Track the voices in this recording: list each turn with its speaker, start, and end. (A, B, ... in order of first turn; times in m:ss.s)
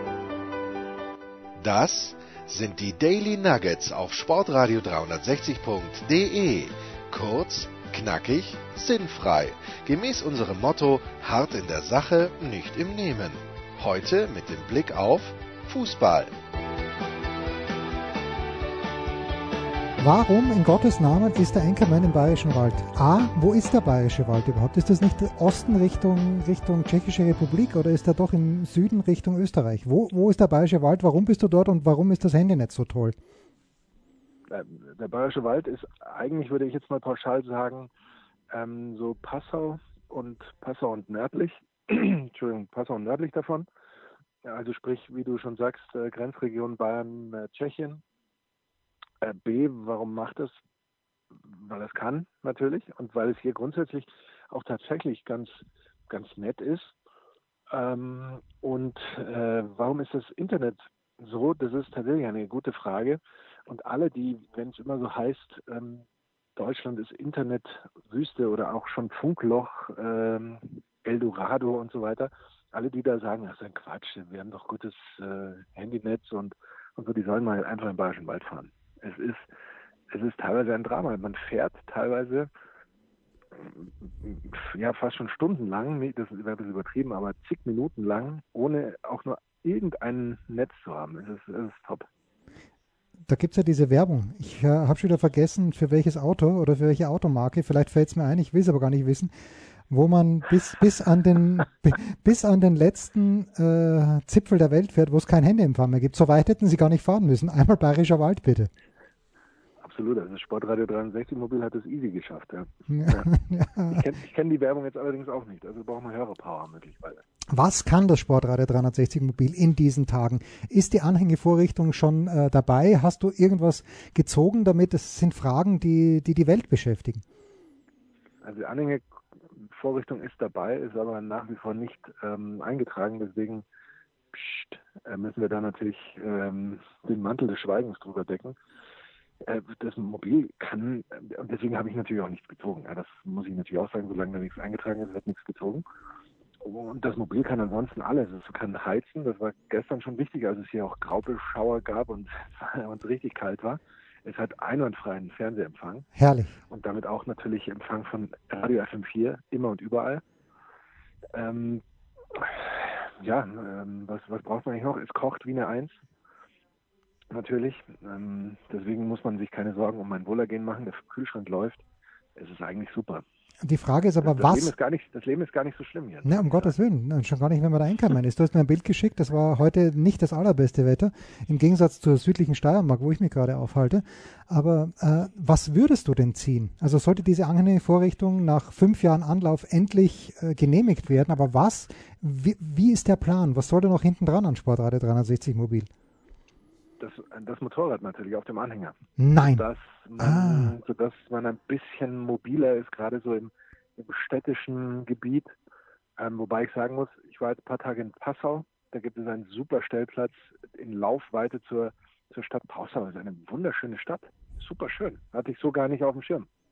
0:01.6-0:16.3 A
0:20.0-0:33.2 B
0:34.5-0:37.9 C
0:38.5-0:43.7 C
0:44.4-0:48.0 C
0:49.2-0:50.6 C
0:51.4-0:56.9 C
0:57.7-1:06.0 C
1:06.6-1:19.5 C
1:20.1-1:22.5 C
1:23.5-1:32.1 C
1:33.3-1:39.3 B
1:39.9-1:48.7 B
1:49.8-1:53.3 C
1:52.9-1:54.0 B
1:53.9-1:57.2 C
1:57.5-2:07.2 B
2:08.4-2:13.6 C
2:14.3-2:18.6 C
2:19.4-2:25.8 C
2:26.6-2:36.1 C
2:36.2-2:36.5 B
2:36.7-2:40.2 C
2:41.3-2:46.0 C
2:47.3-2:51.8 C
2:52.4-2:53.2 C
2:53.6-2:54.7 B
2:54.2-2:56.7 C
2:56.2-3:15.9 B
3:17.0-3:25.5 C
3:19.2-3:19.6 B
3:20.2-3:20.7 B
3:26.2-3:36.5 C